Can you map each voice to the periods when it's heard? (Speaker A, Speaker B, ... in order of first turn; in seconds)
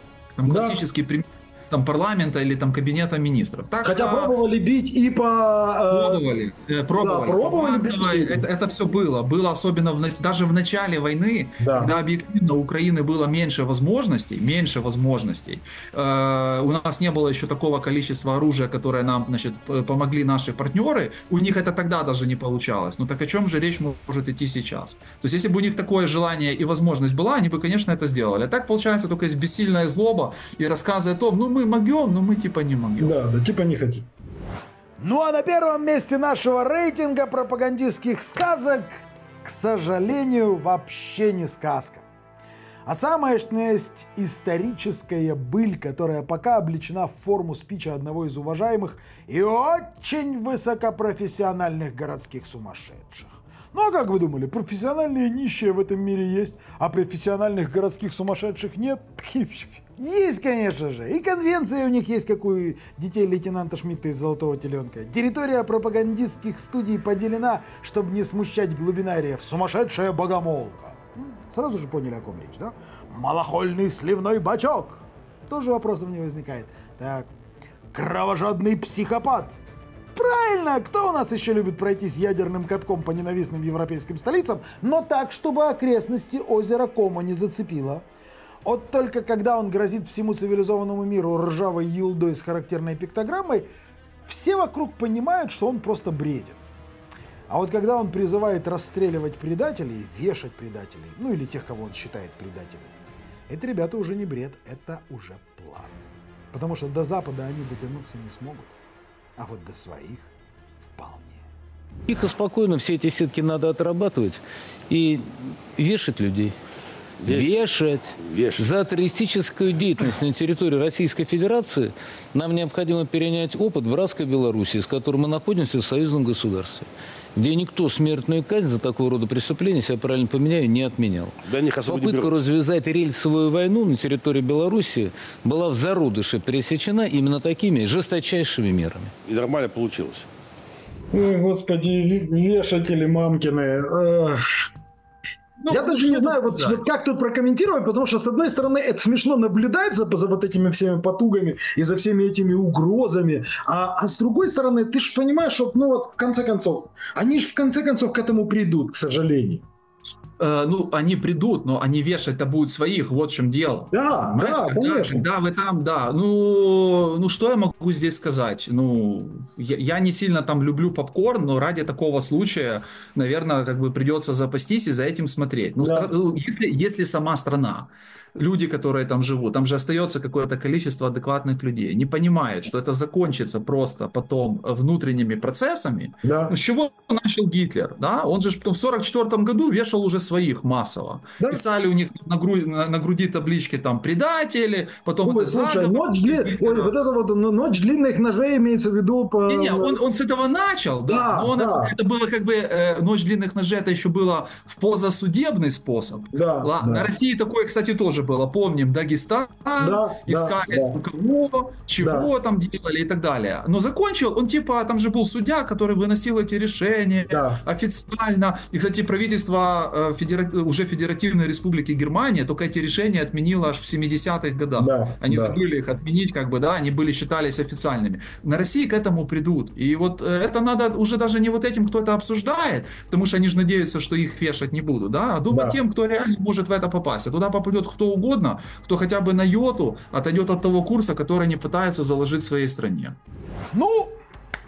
Speaker A: 0.4-4.3, 5.9-33.2, 145.6-146.8, 160.4-196.9, 199.5-243.2
Speaker B: 0.5-0.8, 3.8-6.2, 7.0-8.4, 11.6-12.0, 33.0-34.1, 141.1-144.4, 145.7-159.6, 163.9-165.3, 175.8-176.1, 186.2-186.5, 195.2-200.0, 201.1-201.9, 206.3-207.1, 209.8-211.0, 212.0-212.3, 217.3-217.6, 224.8-225.6, 235.5-235.8
Speaker C: 35.0-42.0, 42.9-77.3, 77.9-79.6, 80.2-88.1, 88.7-93.7, 94.3-96.6, 97.5-102.9, 103.5-106.0, 106.5-108.7, 109.4-110.3, 110.9-111.4, 243.7-244.2
Speaker D: 112.1-116.5, 117.3-139.1
Speaker E: 117.2-117.6, 118.2-118.7, 131.4-132.3, 139.3-140.3